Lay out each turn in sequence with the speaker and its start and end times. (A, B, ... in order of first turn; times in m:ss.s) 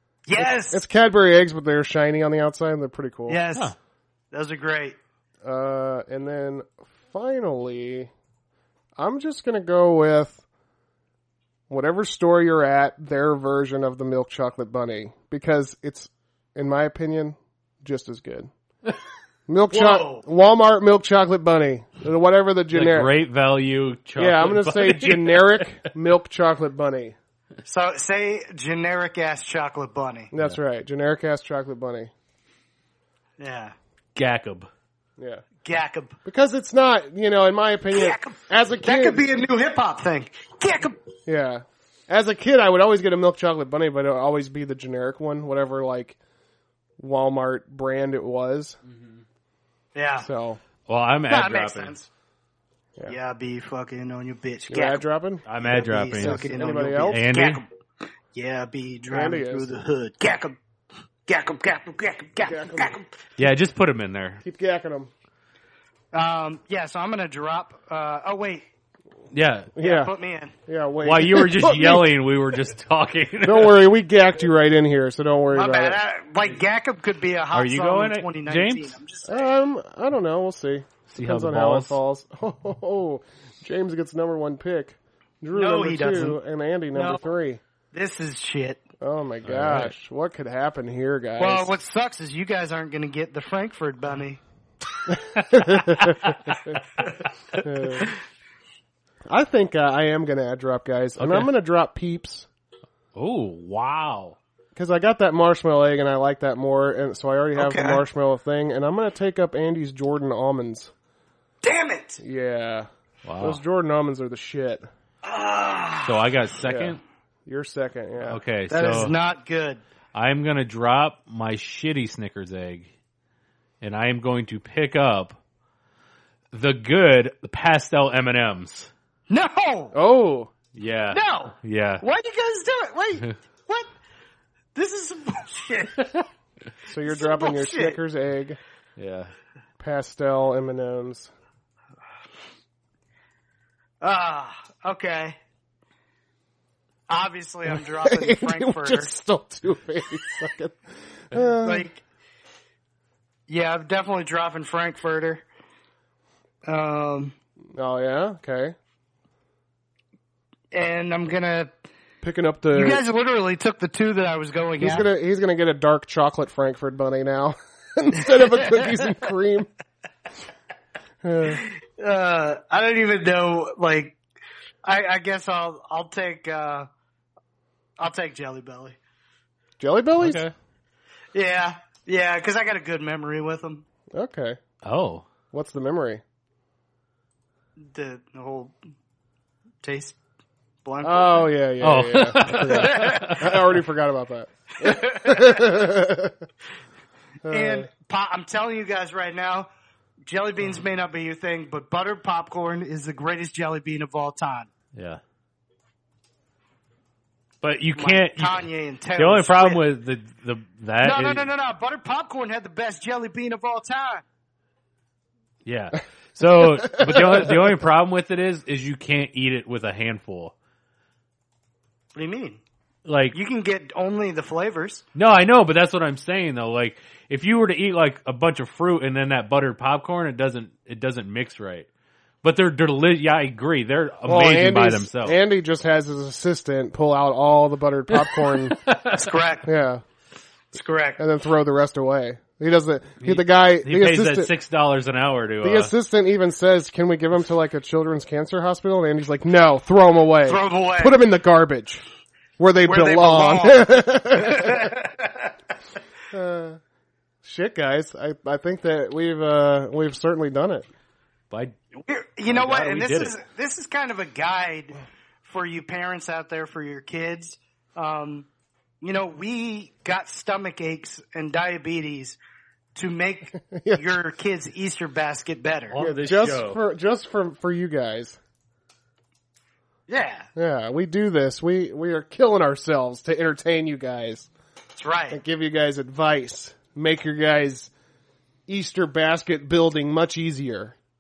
0:00.3-0:00.8 A
0:00.4-0:03.4 B
0:03.3-0:03.7 A
0:04.3-0:05.0 A
0:05.4-0:08.1 B
0:09.0-0:10.4 B
0:11.7-0:18.5 B
0:19.5-0:23.1 B
0:19.7-0:20.2 A
0:22.7-0:25.8 C
0:24.2-0:27.2 B
0:27.6-0:30.3 A
0:30.3-0:32.1 B
0:33.4-0:33.8 A
0:34.2-0:34.7 C
0:35.2-0:35.4 B
0:35.6-0:36.2 A
0:36.2-0:39.2 B
0:37.9-0:41.0 A
0:41.3-0:46.2 B
0:47.0-0:48.8 B
0:48.9-0:49.2 C
0:50.0-0:50.3 A
0:50.2-0:50.6 B
0:50.9-0:52.0 C
0:51.3-0:52.1 A
0:53.1-0:55.0 A
0:54.7-0:55.4 B
0:55.5-0:56.5 C
0:55.6-0:57.7 A
0:56.1-0:57.3 B
0:57.0-0:57.6 C
0:58.3-1:00.6 A
0:59.1-0:59.7 B
1:01.3-1:03.1 A
1:02.4-1:03.0 B
1:03.4-1:04.4 C
1:04.4-1:05.1 B
1:06.1-1:08.7 A
1:09.3-1:09.7 C
1:09.8-1:10.1 B
1:09.8-1:10.5 A
1:10.7-1:12.1 B
1:11.0-1:13.8 C
1:13.4-1:16.0 B
1:15.5-1:19.5 A
1:17.5-1:19.0 C
1:19.3-1:27.6 B
1:21.1-1:22.0 C
1:25.5-1:26.4 A
1:26.9-1:27.2 A
1:27.9-1:28.8 A
1:29.0-1:31.8 B
1:29.4-1:29.9 C
1:31.4-1:34.4 A
1:35.5-1:36.2 B
1:36.1-1:36.4 C
1:37.6-1:38.1 B
1:39.3-1:42.5 B
1:41.2-1:41.5 C
1:43.2-1:44.4 C
1:44.8-1:50.9 B
1:47.6-1:48.0 A
1:51.6-1:52.2 A
1:52.2-1:52.9 B
1:53.2-1:53.6 C
1:53.4-1:54.9 B
1:55.2-1:56.2 A
1:56.0-1:57.0 C
1:56.7-1:58.4 B
1:58.2-1:59.2 C
1:58.7-1:59.8 A
2:00.1-2:02.9 C
2:03.8-2:05.4 C
2:06.5-2:08.9 C
2:09.3-2:10.0 A
2:09.9-2:10.5 B
2:10.7-2:12.0 C
2:11.1-2:13.9 A
2:14.8-2:16.2 A
2:16.9-2:18.6 B
2:17.0-2:18.0 A
2:19.0-2:19.3 C
2:19.8-2:21.3 B
2:24.0-2:25.4 A
2:27.1-2:29.1 A
2:27.7-2:30.8 B
2:31.3-2:31.9 B
2:31.6-2:32.0 A
2:33.5-2:35.4 A
2:36.6-2:37.4 A
2:37.8-2:38.8 B
2:40.7-2:41.7 A
2:42.2-2:43.0 B
2:42.7-2:45.1 A
2:44.8-2:49.7 B
2:51.2-2:51.6 B
2:51.5-2:54.2 A
2:54.8-2:56.9 A
2:58.0-2:59.0 A
2:59.8-3:00.5 B
3:00.2-3:00.5 C
3:01.3-3:03.8 A
3:04.1-3:04.6 B
3:04.8-3:05.3 C
3:05.5-3:06.2 B
3:07.8-3:08.8 A
3:09.8-3:10.2 A
3:10.8-3:11.5 A
3:11.0-3:16.4 B
3:11.8-3:13.5 C
3:12.5-3:13.4 A
3:14.8-3:15.6 A
3:17.5-3:17.9 B
3:17.5-3:19.7 A
3:20.3-3:24.7 A
3:25.0-3:25.2 C
3:27.6-3:31.5 C
3:28.0-3:29.8 A
3:31.0-3:34.2 A
3:35.6-3:40.5 C
3:42.2-3:42.6 A
3:43.0-3:43.4 C
3:43.3-3:45.0 A
3:45.2-3:51.9 C
3:52.4-3:55.4 C
3:54.3-3:58.8 B
3:58.1-3:59.3 C
3:59.1-3:59.7 A
3:59.7-4:00.0 B
4:00.7-4:01.2 A
4:01.2-4:04.5 B
4:03.2-4:05.9 C
4:05.6-4:12.0 B
4:10.5-4:11.2 A
4:12.6-4:14.9 B
4:12.8-4:15.5 A
4:16.3-4:16.8 B
4:17.4-4:20.9 B
4:21.5-4:21.8 C
4:22.0-4:28.5 A
4:22.5-4:23.4 C
4:29.0-4:32.4 A
4:33.0-4:36.0 A
4:33.6-4:34.0 B
4:35.9-4:36.8 C
4:36.0-4:38.4 B
4:40.1-4:40.5 A
4:40.6-4:44.5 B
4:45.0-4:45.4 A
4:45.3-4:47.9 B
4:48.7-4:51.0 B